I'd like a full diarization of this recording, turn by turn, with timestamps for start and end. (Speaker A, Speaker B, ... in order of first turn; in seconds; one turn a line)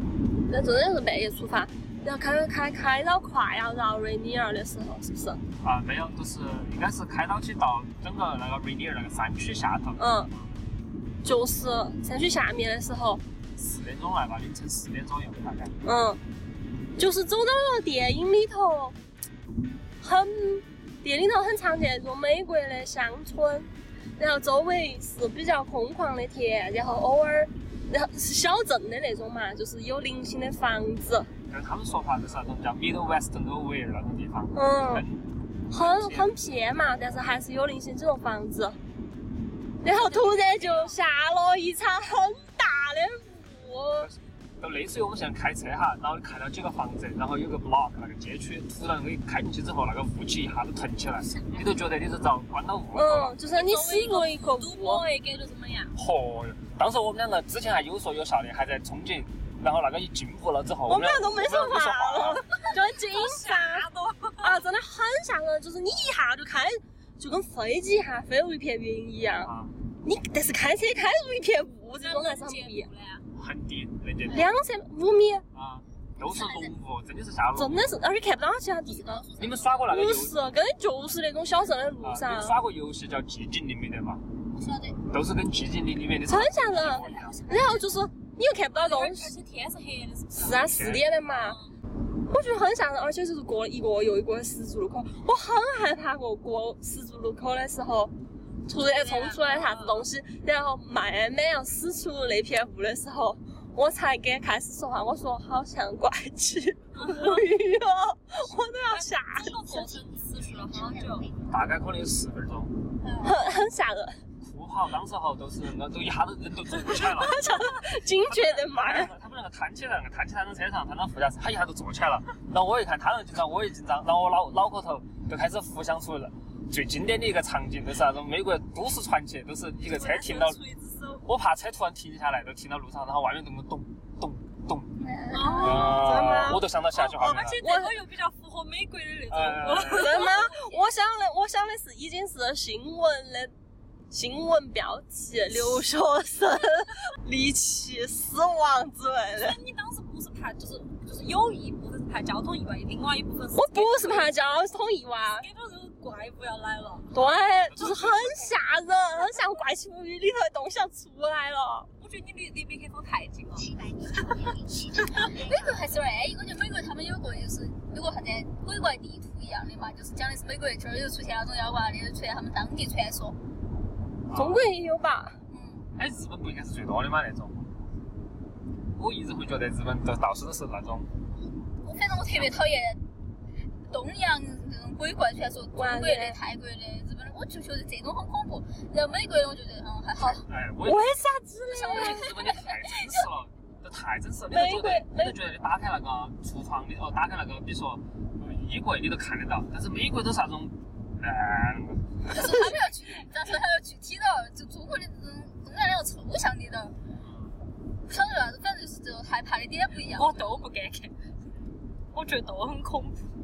Speaker A: 0.5-5.4
Speaker B: 5.6-10.5
Speaker A: 10.0-10.3
Speaker A: 11.2-13.2
Speaker B: 13.6-15.8
Speaker A: 15.8-16.2
Speaker A: 17.0-19.0
Speaker A: 20.0-31.3
Speaker B: 31.5-36.3
Speaker A: 34.5-35.1
Speaker A: 35.7-38.8
Speaker A: 39.8-44.1
Speaker C: 39.9-41.0
Speaker B: 44.0-53.4
Speaker A: 53.0-55.0
Speaker C: 53.5-55.9
Speaker B: 56.0-62.5
Speaker A: 60.9-63.9
Speaker C: 62.6-64.6
Speaker A: 64.4-69.5
Speaker B: 69.4-69.7
Speaker A: 70.0-72.9
Speaker C: 72.0-73.2
Speaker B: 73.4-74.5
Speaker A: 74.3-75.4
Speaker B: 75.5-77.9
Speaker D: 76.2-76.7
Speaker A: 77.6-79.3
Speaker D: 78.9-79.9
Speaker B: 79.4-80.4
Speaker A: 79.9-82.6
Speaker B: 82.0-84.2
Speaker D: 84.6-85.0
Speaker B: 85.1-87.4
Speaker A: 86.3-89.3
Speaker D: 86.8-87.8
Speaker C: 88.8-90.7
Speaker A: 90.3-91.6
Speaker B: 90.7-91.3
Speaker C: 91.4-91.7
Speaker A: 92.3-98.1
Speaker A: 98.7-109.6
Speaker C: 98.8-100.1
Speaker C: 107.0-107.5
Speaker C: 108.9-111.3
Speaker E: 109.6-111.6
Speaker B: 111.5-112.8
Speaker D: 113.0-113.4
Speaker A: 113.2-114.2
Speaker B: 114.4-117.6
Speaker A: 116.9-119.1
Speaker B: 118.2-130.6
Speaker C: 129.9-131.2
Speaker B: 131.2-134.9
Speaker D: 135.0-136.0
Speaker C: 135.3-136.4
Speaker A: 135.5-136.6
Speaker B: 135.6-137.6
Speaker C: 136.9-140.8
Speaker A: 137.2-137.9
Speaker B: 139.3-140.3
Speaker A: 139.9-143.5
Speaker A: 144.1-149.6
Speaker C: 149.4-154.3
Speaker A: 153.5-155.5
Speaker C: 155.4-157.1
Speaker A: 157.1-161.9
Speaker B: 157.7-158.6
Speaker C: 162.0-163.7
Speaker E: 163.5-166.0
Speaker D: 165.2-173.4
Speaker B: 174.3-174.6
Speaker A: 174.3-175.4
Speaker D: 175.5-175.8
Speaker B: 176.0-177.7
Speaker B: 179.0-181.1
Speaker D: 181.8-183.0
Speaker B: 182.3-182.6
Speaker D: 183.9-190.5
Speaker A: 185.8-186.4
Speaker A: 190.2-192.4
Speaker B: 190.4-191.2
Speaker D: 191.7-192.7
Speaker B: 191.8-202.6
Speaker A: 194.5-195.4
Speaker D: 202.3-206.9
Speaker B: 207.2-207.5
Speaker D: 208.1-210.5
Speaker C: 210.1-211.1
Speaker C: 212.1-213.3